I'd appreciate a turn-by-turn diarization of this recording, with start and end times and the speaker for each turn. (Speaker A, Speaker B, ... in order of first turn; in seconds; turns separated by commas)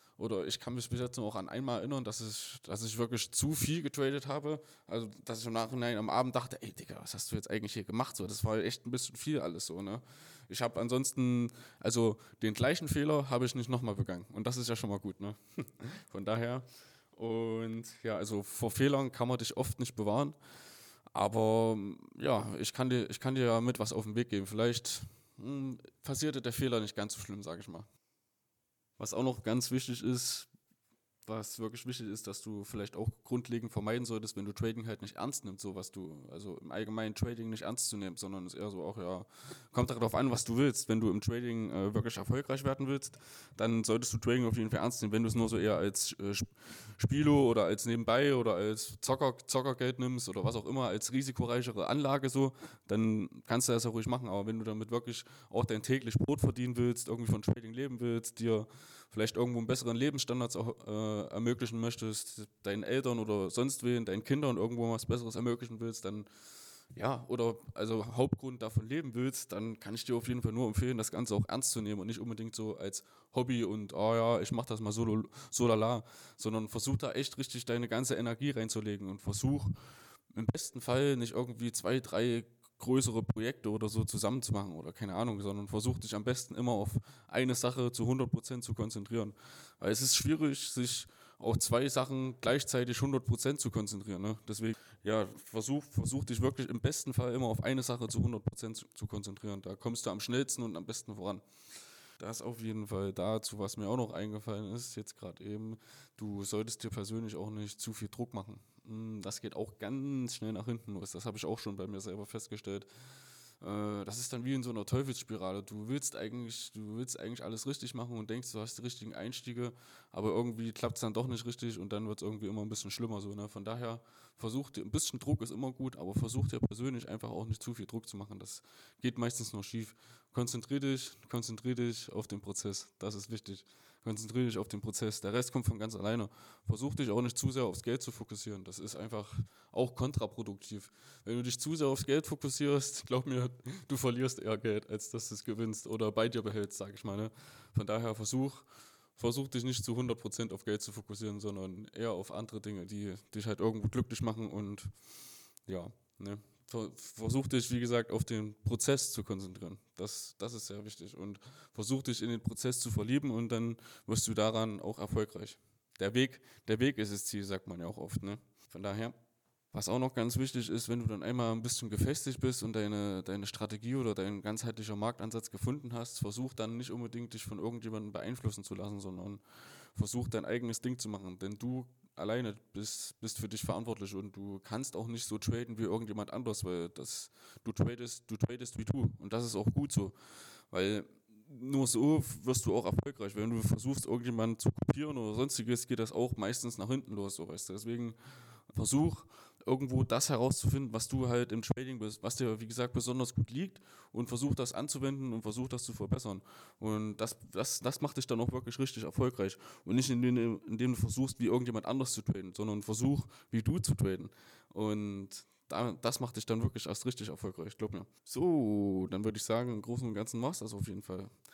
Speaker A: 0.2-20.4, Speaker A: 21.1-27.9, Speaker A: 29.0-30.5, Speaker A: 31.2-66.3, Speaker A: 66.9-79.8, Speaker A: 80.3-101.4, Speaker A: 102.2-112.9, Speaker A: 113.6-154.9, Speaker A: 155.7-169.1, Speaker A: 169.7-179.4, Speaker A: 179.9-190.1, Speaker A: 190.7-198.2, Speaker A: 198.7-221.3